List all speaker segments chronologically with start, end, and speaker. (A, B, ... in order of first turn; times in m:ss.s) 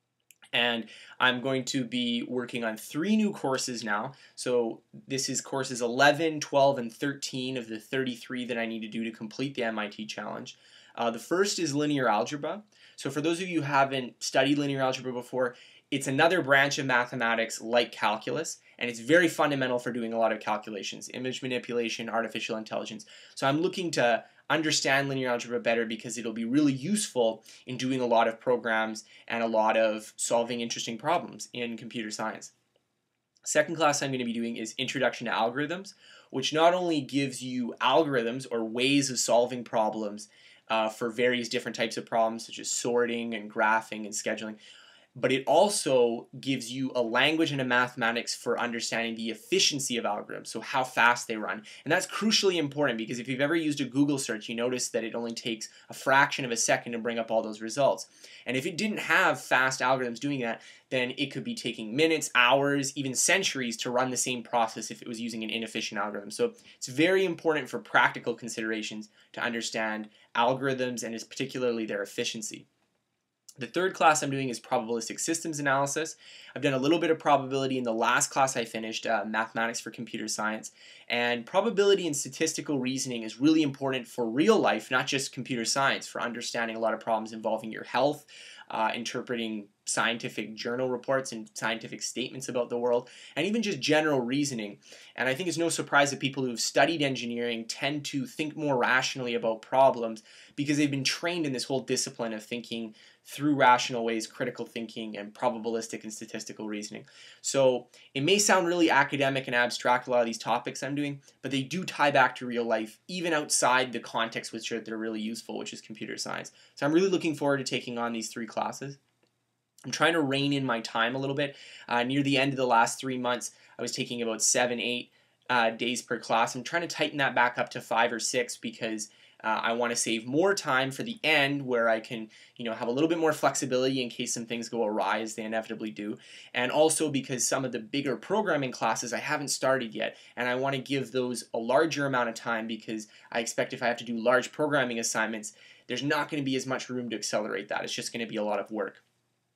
0:00.5-0:32.5 A
0:33.4-0:44.6 A
0:45.1-1:12.6 A
1:13.6-1:59.0 A
1:59.9-2:29.0 A